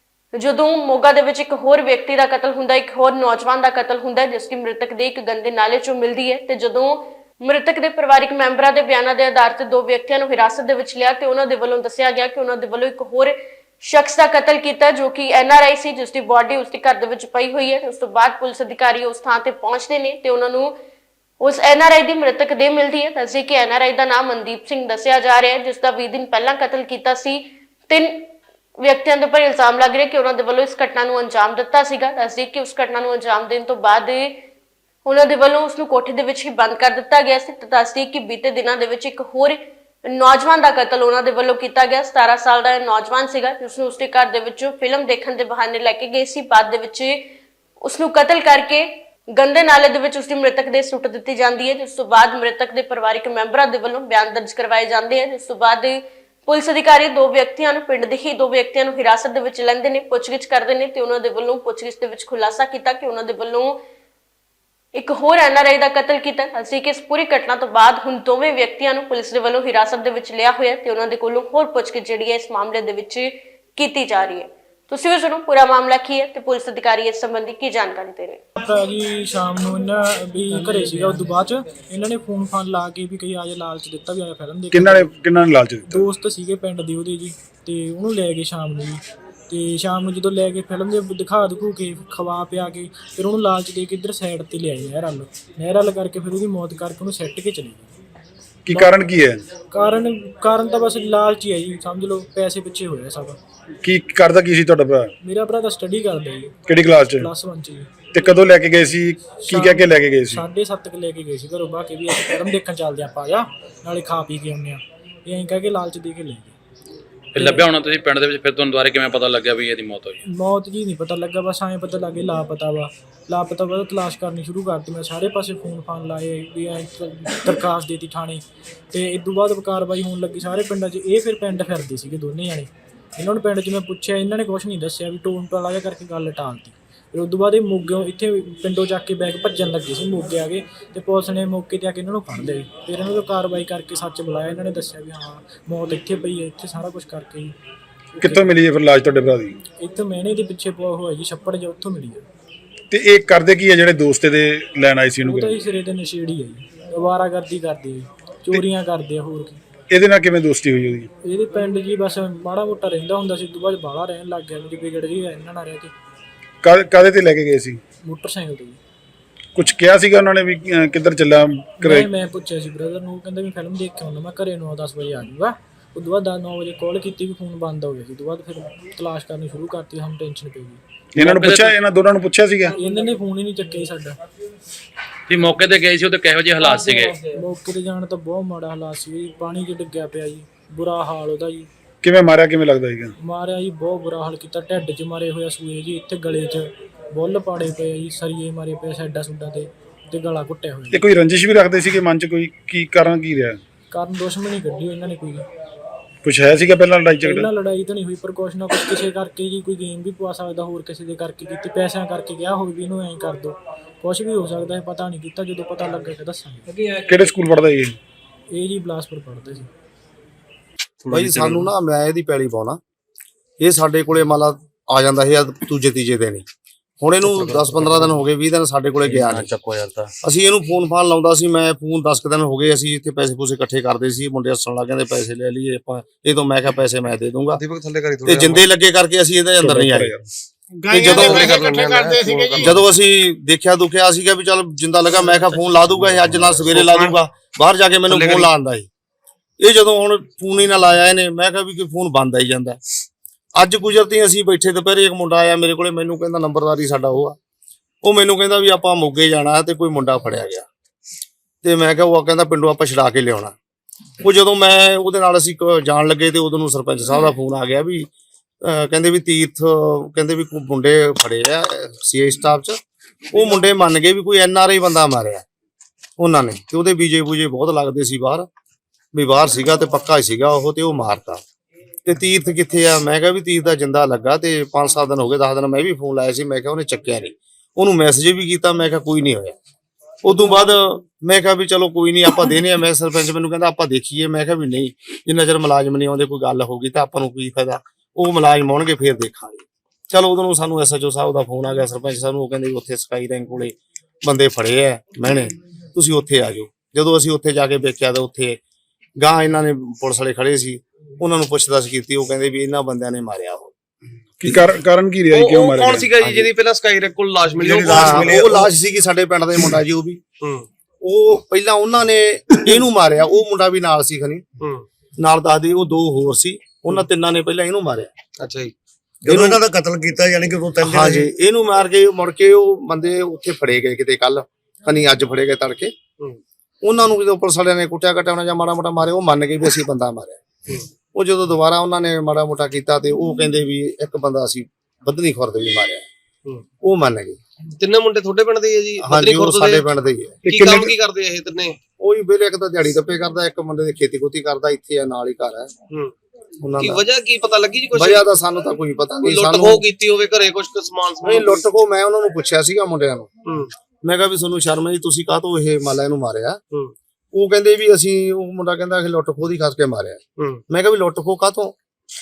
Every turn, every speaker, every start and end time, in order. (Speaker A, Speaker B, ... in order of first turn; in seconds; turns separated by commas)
Speaker A: 0.3-20.7, Speaker A: 21.4-34.4, Speaker A: 35.0-47.3, Speaker A: 47.8-63.8, Speaker A: 64.9-78.4, Speaker B: 78.6-85.2, Speaker C: 84.7-86.1, Speaker B: 85.9-97.9, Speaker C: 98.7-99.4, Speaker B: 98.7-99.0, Speaker B: 99.6-103.4, Speaker C: 103.8-105.1, Speaker B: 105.2-106.6, Speaker C: 106.7-107.3, Speaker B: 107.2-107.9, Speaker C: 108.1-110.5, Speaker B: 109.3-116.5, Speaker B: 117.4-117.7, Speaker D: 117.4-120.2, Speaker B: 120.2-147.6, Speaker B: 148.2-148.5, Speaker C: 148.2-149.6, Speaker B: 149.8-152.2, Speaker C: 152.9-155.6, Speaker B: 155.2-159.6, Speaker C: 159.9-161.1, Speaker B: 161.2-165.9, Speaker C: 166.6-167.8, Speaker B: 168.0-168.8, Speaker C: 169.6-172.1, Speaker B: 171.8-180.8, Speaker C: 181.2-182.8, Speaker D: 181.2-181.7, Speaker B: 182.7-184.2, Speaker D: 185.3-187.2, Speaker B: 186.6-191.7, Speaker C: 192.0-193.1, Speaker B: 193.2-201.1, Speaker C: 200.9-203.6, Speaker B: 203.9-205.5, Speaker C: 206.2-207.5, Speaker B: 207.2-216.9, Speaker C: 217.1-218.0, Speaker B: 218.5-219.7, Speaker E: 221.1-222.8, Speaker E: 223.6-226.5, Speaker E: 227.0-229.5, Speaker E: 230.2-237.6, Speaker F: 237.6-238.7, Speaker E: 238.2-240.2, Speaker C: 239.6-240.2, Speaker C: 240.9-242.7, Speaker E: 240.9-241.6, Speaker F: 241.0-242.8, Speaker E: 242.6-248.9, Speaker F: 246.3-247.1, Speaker F: 248.1-248.5, Speaker E: 249.6-252.8, Speaker E: 253.6-257.4, Speaker E: 258.0-260.7, Speaker E: 261.6-263.5, Speaker E: 264.2-268.1, Speaker E: 268.6-272.8, Speaker E: 273.3-275.4, Speaker E: 276.2-278.5, Speaker E: 279.1-281.4, Speaker E: 282.1-289.6, Speaker E: 290.2-308.6, Speaker E: 309.2-313.7, Speaker C: 314.4-316.5, Speaker F: 315.3-318.7, Speaker E: 317.8-320.2, Speaker F: 320.4-320.7, Speaker E: 321.0-324.4, Speaker F: 324.6-324.9, Speaker E: 325.2-328.1, Speaker F: 328.4-328.8, Speaker G: 329.2-331.3, Speaker E: 329.3-329.6, Speaker E: 330.8-335.9, Speaker E: 336.8-340.4, Speaker E: 341.1-346.1, Speaker E: 346.8-347.4, Speaker F: 347.8-349.9, Speaker E: 349.0-350.4, Speaker F: 350.4-351.8, Speaker C: 350.5-350.9, Speaker E: 352.0-355.7, Speaker E: 356.6-357.0, Speaker F: 356.8-358.2, Speaker E: 357.9-359.8, Speaker F: 359.2-361.6, Speaker E: 361.2-363.3, Speaker F: 363.5-363.7, Speaker E: 364.0-366.6, Speaker E: 367.3-371.7, Speaker F: 370.4-370.6